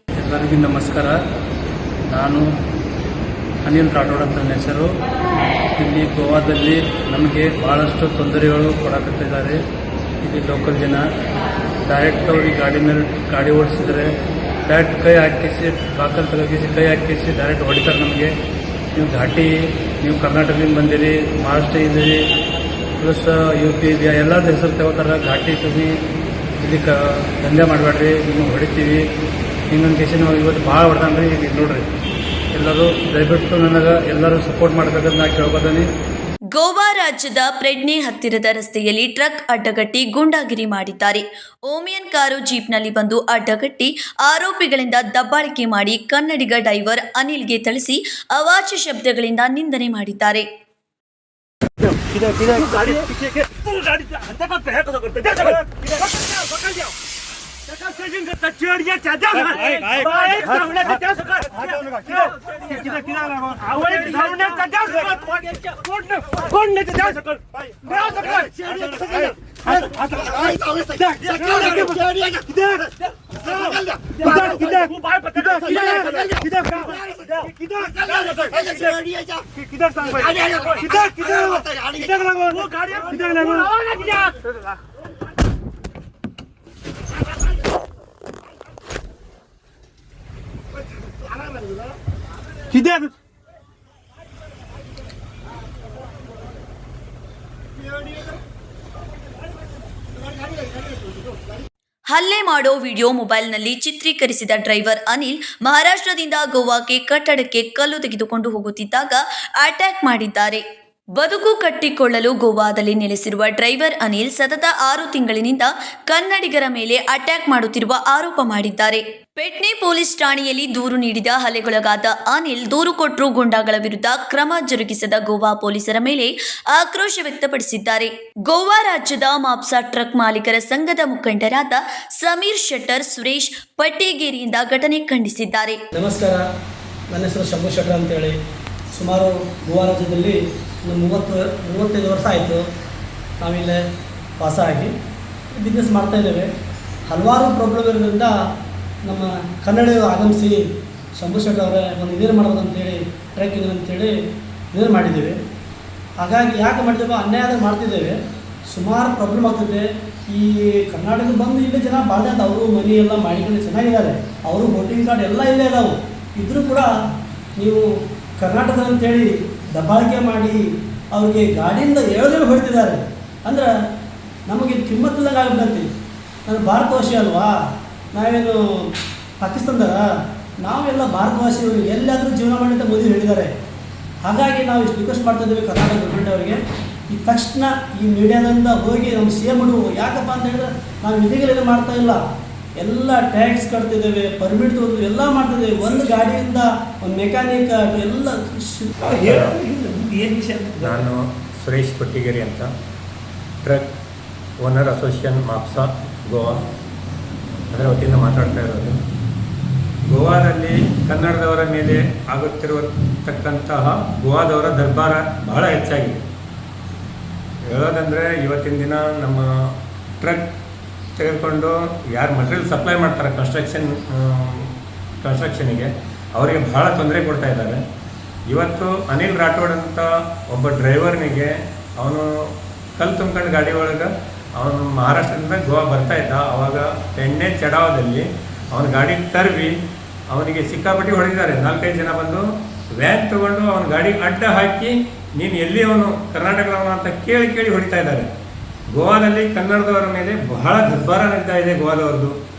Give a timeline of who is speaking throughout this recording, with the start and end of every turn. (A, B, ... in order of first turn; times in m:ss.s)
0:00.2-0:01.2 A
0:02.1-0:02.5 A
0:03.6-0:05.0 A
0:05.7-0:09.6 A
0:10.2-0:11.0 A
0:11.8-0:14.1 A
0:14.6-0:18.3 A
0:18.9-0:22.3 A
0:23.0-0:26.0 A
0:26.6-0:29.1 A
0:29.7-0:31.9 A
0:32.5-0:35.9 A
0:36.5-0:50.4 B
0:52.4-0:53.0 A
0:54.2-0:55.5 A
0:57.9-1:01.2 A
1:03.6-1:05.1 A
1:05.7-1:07.3 A
1:08.7-1:09.3 C
1:10.6-1:10.9 C
1:11.5-1:12.0 A
1:12.1-1:12.4 C
1:14.2-1:16.0 A
1:20.8-1:21.6 A
1:22.3-1:24.3 A
1:32.8-1:33.1 A
1:42.1-1:50.6 B
1:51.2-2:15.8 B
2:15.9-2:16.4 D
2:17.1-2:18.4 D
2:18.9-2:22.6 D
2:23.4-2:23.8 D
2:24.4-2:24.9 D
2:25.5-2:26.5 D
2:27.1-2:28.3 D
2:29.0-2:34.1 D
2:34.7-2:35.4 D
2:36.2-2:38.2 D
2:38.7-2:46.9 D
2:47.6-2:47.8 D
2:48.4-2:53.7 D
2:54.5-2:55.9 D
2:56.4-2:57.5 D
2:58.1-3:00.0 D
3:00.6-3:03.5 D
3:04.2-3:06.6 D
3:07.1-3:12.2 D
3:12.8-3:19.1 D
3:19.2-3:19.6 E
3:19.2-3:21.0 C
3:20.8-3:22.7 E
3:23.6-3:23.9 E
3:24.6-3:26.6 E
3:27.7-3:29.0 E
3:30.1-3:36.2 E
3:37.6-3:40.5 E
3:41.2-3:47.8 E
3:48.5-3:59.8 E
4:00.3-4:08.3 E
4:08.9-4:12.3 E